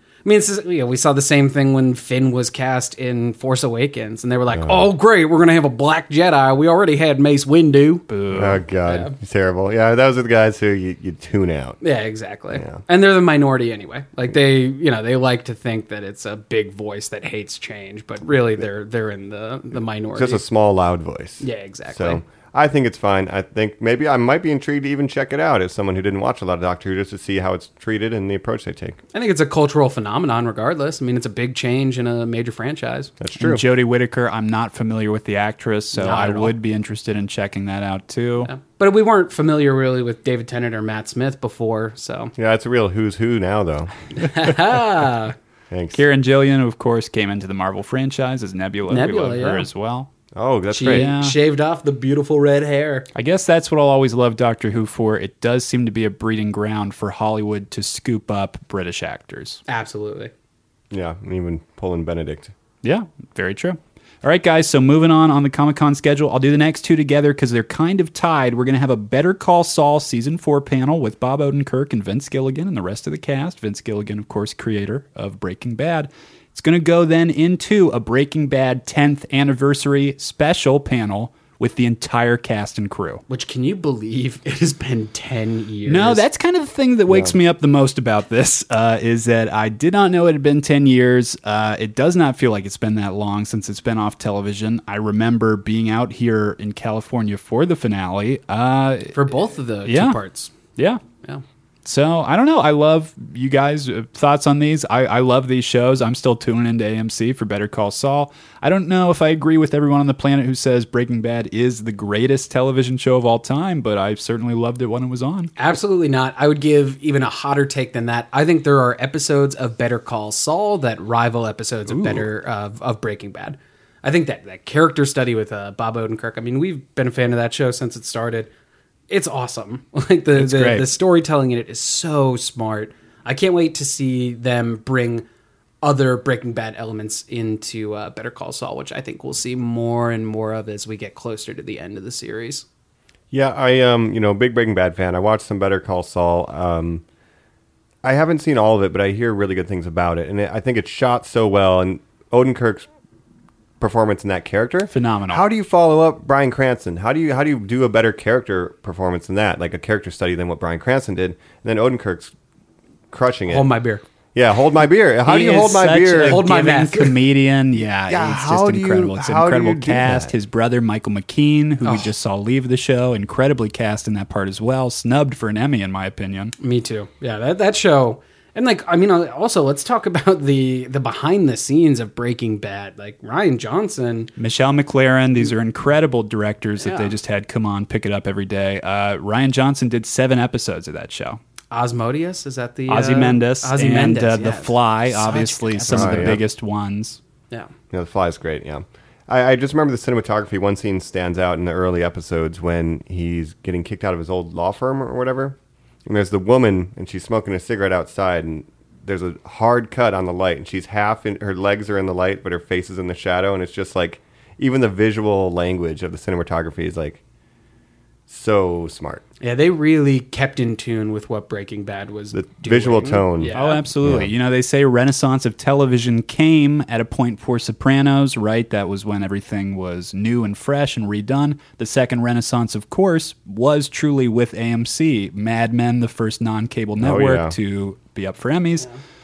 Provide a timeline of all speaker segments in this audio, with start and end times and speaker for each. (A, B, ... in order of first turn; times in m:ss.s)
0:00.2-0:08.1 A
0:04.5-0:04.8 B
0:08.1-0:08.6 C
0:08.3-0:11.8 B
0:08.8-0:09.1 A
0:11.8-0:20.4 A
0:12.5-0:12.8 B
0:20.1-0:29.0 B
0:21.4-0:22.2 A
0:29.1-0:33.1 A
0:33.2-0:33.6 B
0:33.4-0:38.5 C
0:35.9-0:36.5 A
0:38.4-0:42.3 A
0:42.4-0:43.9 B
0:44.2-0:45.3 A
0:45.7-0:46.0 B
0:45.9-0:50.1 C
0:48.9-0:49.7 A
0:50.3-0:51.1 B
0:50.7-0:53.1 A
0:50.8-0:51.4 C
0:53.1-0:59.6 C
0:59.7-1:00.3 A
1:00.9-1:02.5 B
1:02.8-1:23.2 C
1:23.3-1:26.2 A
1:25.8-1:39.2 C
1:39.1-1:40.5 A
1:39.8-1:40.2 C
1:40.8-1:41.0 C
1:41.8-1:55.5 C
1:55.6-2:08.5 A
2:01.9-2:02.2 C
2:09.1-2:15.2 A
2:10.3-2:10.9 C
2:15.8-2:22.6 A
2:23.3-2:27.0 B
2:28.0-2:32.9 B
2:33.8-2:42.3 B
2:34.9-2:35.4 C
2:43.1-2:43.7 B
2:43.5-2:44.0 A
2:44.3-2:46.4 B
2:45.2-2:56.5 C
2:46.2-2:47.2 A
2:48.1-2:50.3 B
2:51.8-2:52.1 A
2:56.6-3:04.3 A
3:04.4-3:11.4 C
3:06.8-3:07.1 A
3:11.7-3:16.4 A
3:12.9-3:17.2 C
3:15.9-3:16.4 B
3:17.9-3:37.2 B
3:38.3-3:39.2 B
3:39.4-3:43.8 A
3:42.3-3:44.3 B
3:43.5-3:58.9 C
3:57.0-3:57.5 B